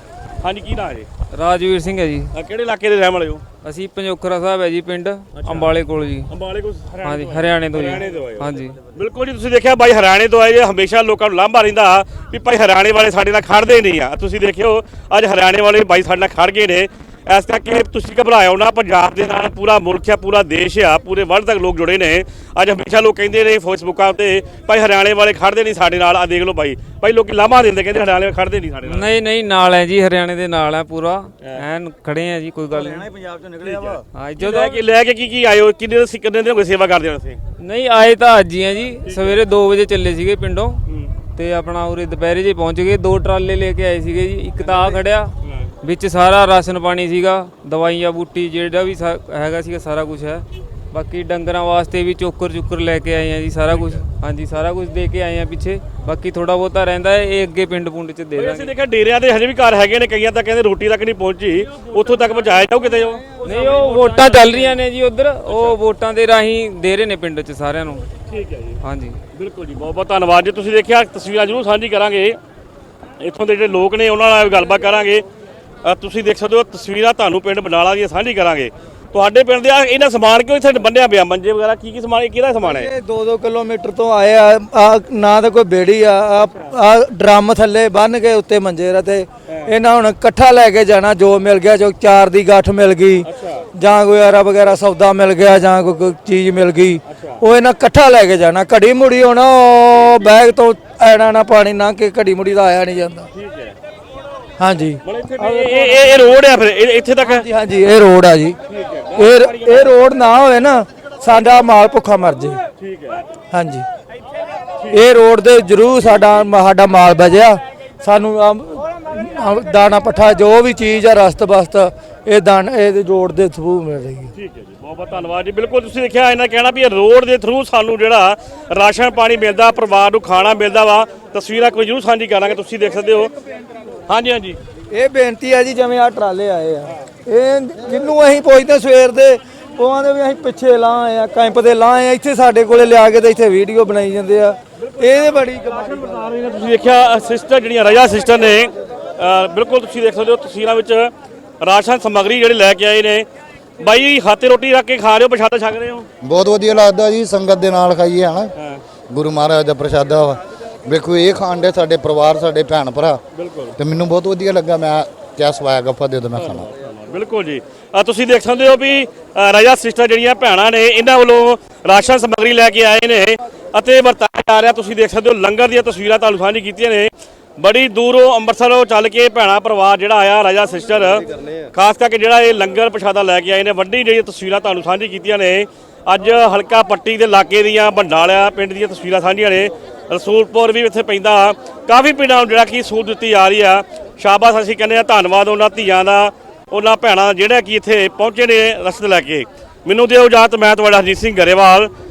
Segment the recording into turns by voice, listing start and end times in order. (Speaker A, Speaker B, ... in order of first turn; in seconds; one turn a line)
Speaker A: 0.4-1.1
Speaker B: 1.3-2.3
Speaker A: 2.3-3.4
Speaker B: 3.6-6.3
Speaker A: 5.4-5.7
Speaker A: 6.3-29.1
Speaker B: 7.0-8.8
Speaker B: 28.9-33.0
Speaker A: 33.2-37.4
Speaker B: 34.1-34.8
Speaker B: 37.6-40.8
Speaker A: 39.1-39.4
Speaker B: 41.4-45.3
Speaker A: 44.6-45.6
Speaker B: 45.8-58.7
Speaker A: 58.4-64.8
Speaker B: 63.4-68.0
Speaker A: 68.3-68.8
Speaker B: 68.8-69.2
Speaker A: 69.3-72.4
Speaker A: 73.2-75.2
Speaker A: 75.8-82.9
Speaker C: 82.6-93.3
Speaker A: 93.3-93.6
Speaker C: 93.8-103.3
Speaker A: 97.1-97.4
Speaker A: 103.3-103.8
Speaker C: 104.6-106.2
Speaker A: 105.0-107.5
Speaker C: 107.2-108.6
Speaker A: 108.7-109.8
Speaker C: 109.2-112.6
Speaker A: 112.8-113.2
Speaker C: 113.5-113.8
Speaker C: 114.9-124.3
Speaker A: 124.4-133.3
Speaker A: 134.1-134.6
Speaker C: 134.9-146.0
Speaker A: 146.0-151.1
Speaker A: 151.6-153.3
Speaker A: 153.8-156.1
Speaker D: 156.2-158.5
Speaker D: 159.1-163.2
Speaker A: 163.3-163.8
Speaker D: 163.8-166.7
Speaker A: 166.4-201.9